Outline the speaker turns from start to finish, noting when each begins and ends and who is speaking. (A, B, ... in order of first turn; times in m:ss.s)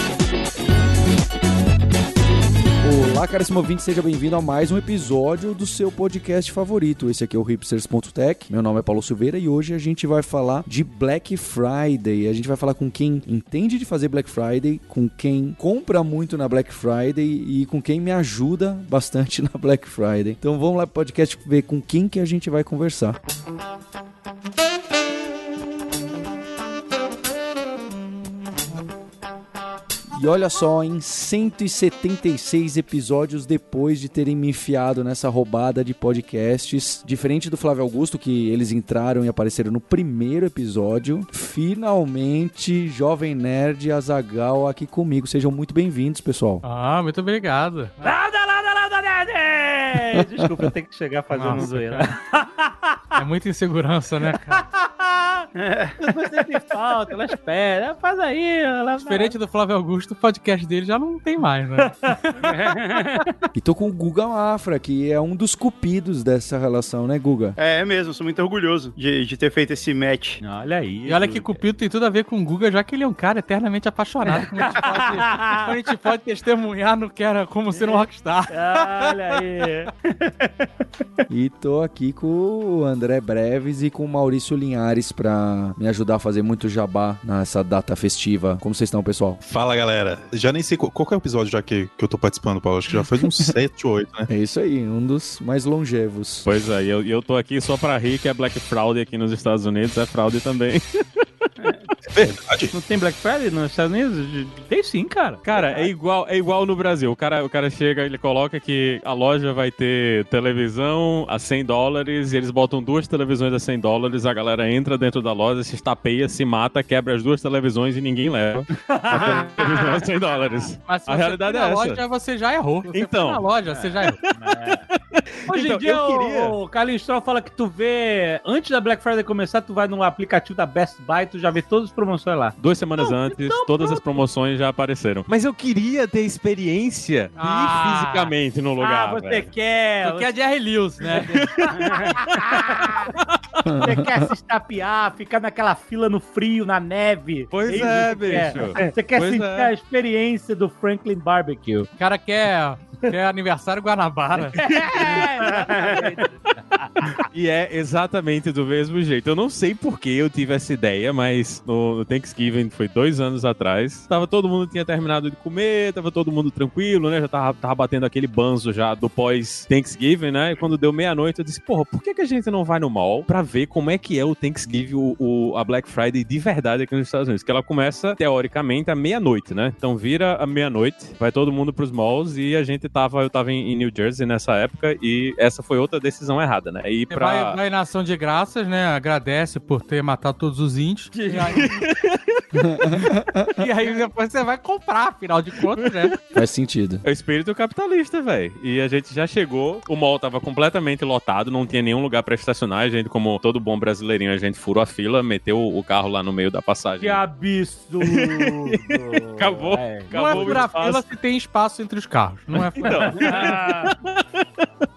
0:02.8-0:23.2 A
0:30.1-0:46.6 A
0:46.6-0:48.0 B
0:48.0-0:53.1 C
0:51.3-0:52.1 B
0:53.2-0:54.6 B
0:54.3-0:55.5 C
0:55.6-0:56.1 D
0:56.0-0:59.3 C
0:59.0-1:02.6 B
1:01.8-1:02.7 C
1:02.5-1:03.2 D
1:03.6-1:07.6 A
1:07.6-1:10.4 D
1:10.4-1:11.6 C
1:11.0-1:19.4 B
1:14.3-1:15.7 C
1:17.7-1:20.7 C
1:21.3-1:29.4 A
1:29.4-1:34.3 E
1:32.9-1:33.5 A
1:34.3-1:36.5 A
1:36.4-1:41.2 F
1:41.6-1:41.9 D
1:42.1-1:42.7 E
1:42.7-1:45.9 C
1:45.4-2:02.0 F
1:58.8-2:00.0 C
2:00.9-2:04.2 B
2:02.9-2:03.4 F
2:03.7-2:04.8 C
2:04.0-2:06.6 F
2:05.5-2:12.6 C
2:12.6-2:19.5 F
2:13.0-2:14.0 B
2:17.4-2:18.3 B
2:18.8-2:20.3 C
2:20.0-2:21.5 B
2:21.1-2:23.1 C
2:21.2-2:23.4 F
2:21.8-2:22.1 D
2:23.6-2:24.0 A
2:23.7-2:31.9 C
2:27.5-2:29.7 F
2:32.0-2:34.6 B
2:34.5-2:37.1 C
2:35.4-2:36.1 D
2:37.1-3:07.6 F
3:07.1-3:11.8 B
3:11.2-3:11.8 C
3:11.5-3:12.4 F
3:12.5-3:13.7 A
3:13.5-3:16.2 B
3:16.3-3:17.0 A
3:17.0-3:27.2 F
3:27.0-3:30.7 C
3:28.0-3:31.0 F
3:30.1-3:33.6 B
3:32.5-3:34.4 F
3:32.8-3:33.9 C